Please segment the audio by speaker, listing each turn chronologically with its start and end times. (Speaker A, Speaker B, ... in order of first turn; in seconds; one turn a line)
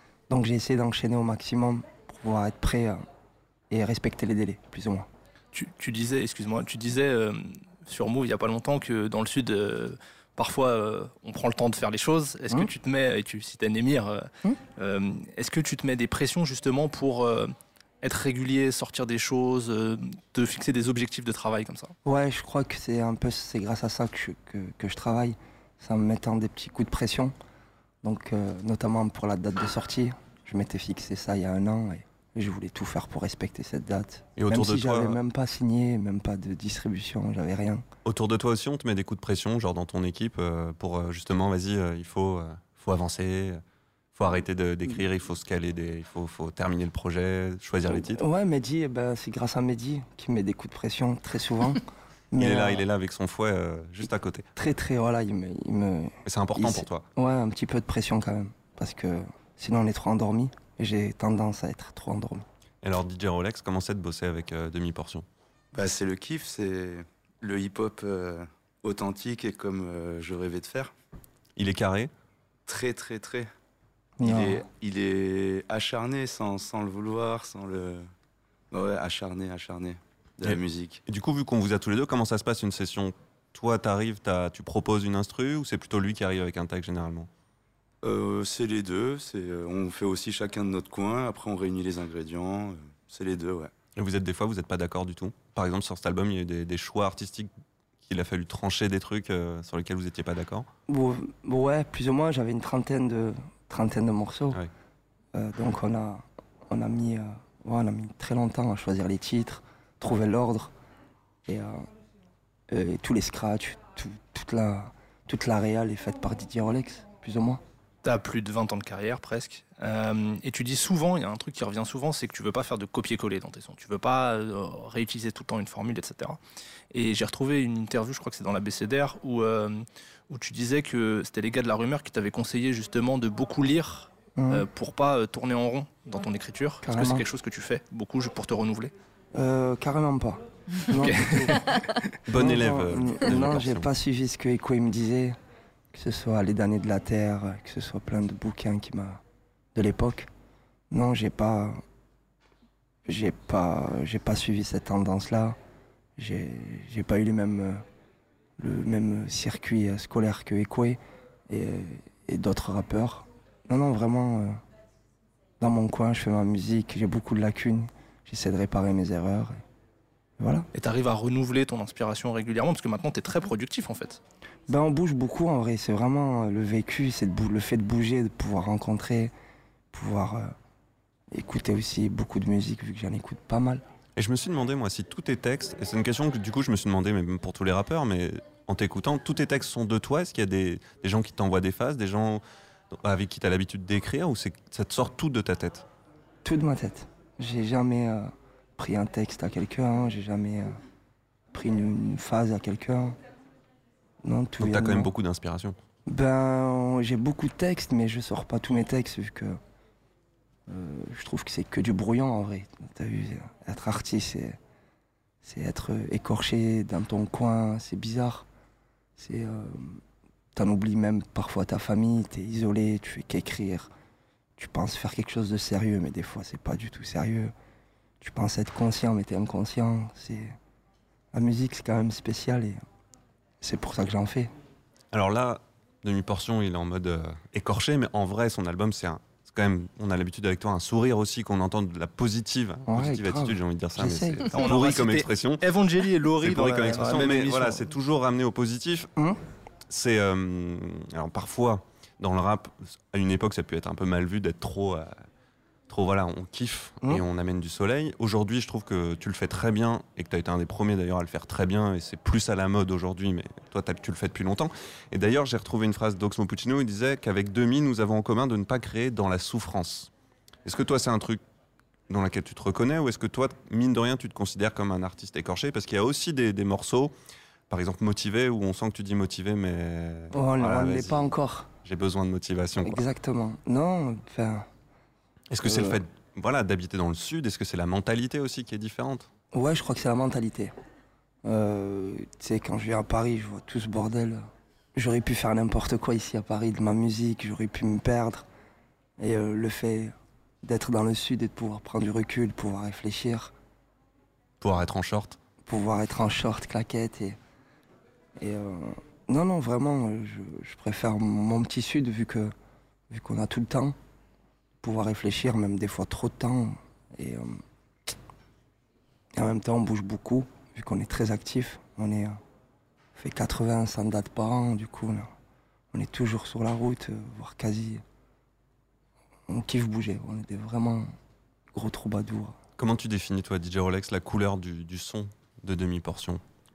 Speaker A: 0.3-3.0
Speaker A: 3.7-5.1
Speaker B: 5.5-21.9
Speaker A: 22.0-27.3
Speaker A: 28.0-37.8
Speaker C: 34.4-35.2
Speaker C: 38.0-43.6
Speaker C: 44.1-48.2
Speaker A: 47.9-52.8
Speaker C: 52.4-54.5
Speaker A: 54.5-62.5
Speaker C: 56.2-57.0
Speaker C: 62.8-65.2
Speaker D: 65.7-70.9
Speaker C: 71.5-72.1
Speaker D: 72.7-73.5
Speaker A: 74.2-74.6
Speaker D: 74.2-78.1
Speaker D: 78.7-81.0
Speaker C: 80.4-87.3
Speaker D: 88.0-93.7
Speaker C: 94.0-97.5
Speaker C: 98.0-100.7
Speaker A: 100.9-104.6
Speaker A: 105.3-110.7
Speaker A: 111.5-111.8
Speaker A: 112.7-117.6
Speaker B: 118.0-126.4
Speaker B: 126.9-138.9
Speaker A: 134.3-134.7
Speaker A: 136.8-137.2
Speaker A: 139.3-141.7
Speaker B: 140.9-142.0
Speaker C: 142.2-143.9
Speaker A: 142.3-145.4
Speaker A: 145.9-149.2
Speaker A: 149.7-150.3
Speaker A: 150.9-151.8
Speaker A: 153.0-155.6
Speaker A: 156.2-157.8
Speaker A: 158.6-164.6
Speaker A: 165.6-169.6
Speaker A: 170.4-170.7
Speaker B: 170.7-174.2
Speaker A: 174.7-179.3
Speaker A: 179.9-180.5
Speaker A: 181.3-183.8
Speaker C: 184.2-195.8
Speaker A: 196.4-200.8
Speaker A: 201.5-203.2
Speaker A: 204.2-205.1
Speaker C: 204.6-205.8
Speaker A: 206.1-209.6
Speaker A: 210.7-214.6
Speaker A: 215.4-218.4
Speaker A: 219.2-220.0
Speaker A: 220.5-223.9
Speaker A: 224.6-227.5
Speaker A: 228.2-230.6
Speaker A: 231.3-232.8
Speaker A: 233.6-234.5
Speaker C: 235.1-245.6
Speaker A: 242.9-244.5
Speaker B: 244.5-247.8
Speaker C: 246.4-249.1
Speaker C: 249.9-255.1
Speaker C: 255.9-270.1
Speaker C: 270.6-271.4
Speaker C: 272.1-277.1
Speaker C: 277.7-281.3
Speaker A: 280.3-281.7
Speaker C: 281.8-283.0
Speaker A: 282.8-284.7
Speaker C: 285.5-289.3
Speaker A: 285.6-286.0
Speaker A: 289.5-290.7
Speaker A: 291.4-298.4
Speaker A: 299.2-303.5
Speaker C: 304.6-305.4
Speaker A: 305.6-307.4
Speaker A: 308.4-312.5
Speaker A: 313.1-313.9
Speaker A: 314.8-317.6
Speaker A: 319.3-322.4
Speaker A: 323.1-325.3
Speaker A: 325.9-328.0
Speaker A: 329.5-331.1
Speaker A: 331.7-332.6
Speaker C: 332.8-336.4